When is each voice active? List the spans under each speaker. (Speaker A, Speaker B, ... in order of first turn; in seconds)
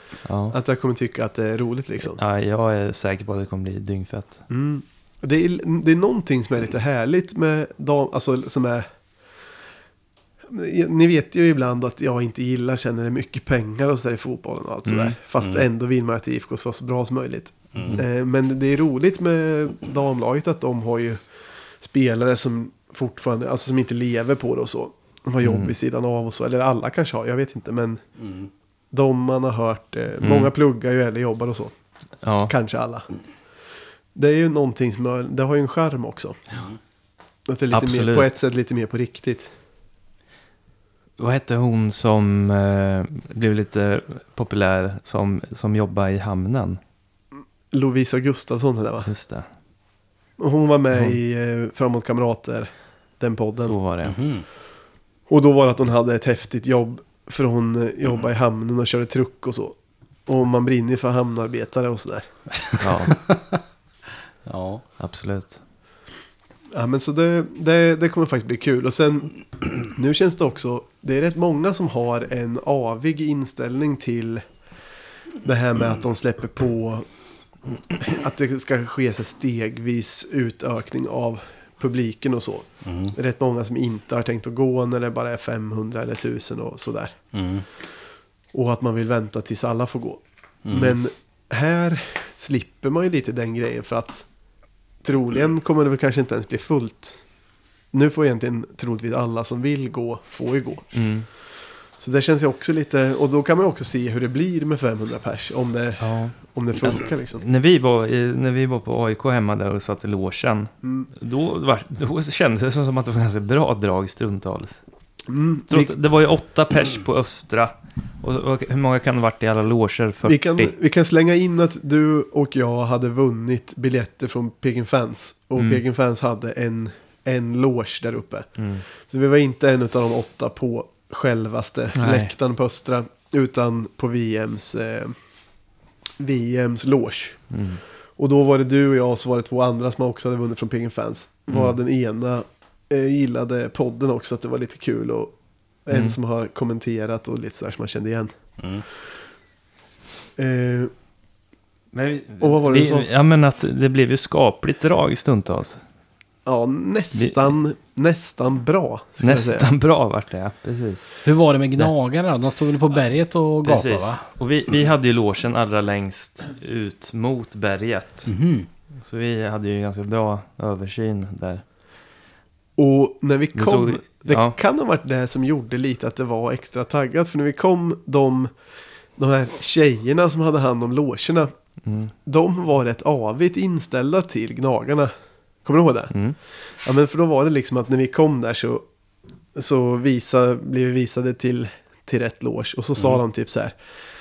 Speaker A: 0.2-0.6, 2.1-4.4, 14.8-15.2, 25.4-25.7, 30.2-30.5, 32.2-32.5, 37.7-38.3, 41.2-46.8, 49.0-49.5, 53.6-54.1, 62.8-63.2, 65.0-65.6, 100.9-101.3, 106.0-114.8, 115.7-120.7, 125.6-125.8, 128.6-128.8, 131.9-132.3, 137.5-137.8, 141.5-141.8, 145.9-146.2, 151.9-155.8, 157.1-157.4, 159.2-161.1, 163.6-168.3, 169.0-171.6, 173.6-174.6, 181.8-182.1
Speaker B: 0.5-2.2, 4.5-8.9, 10.5-21.2, 21.8-28.0, 28.9-31.7, 32.5-33.0, 34.1-36.4, 37.5-39.5, 47.7-49.1, 50.4-53.8, 55.3-62.3, 66.7-74.4, 75.4-77.0, 77.9-87.2, 88.5-94.3, 95.0-97.2, 97.9-100.9, 102.0-107.4, 110.8-111.1, 115.3-115.9, 120.2-128.5, 129.0-135.1, 136.2-137.4, 138.2-145.3, 145.8-148.3, 150.4-150.9, 152.4-153.1, 156.4-159.7, 172.8-178.5, 179.2-181.5, 182.2-185.1, 185.6-186.1, 186.8-188.8, 189.5-193.7
Speaker C: 15.4-15.6, 17.7-18.0, 28.2-28.5, 54.0-54.4, 62.7-63.6, 64.5-64.8, 82.8-83.1, 87.3-87.6, 90.6-91.0, 161.2-164.2, 168.3-168.7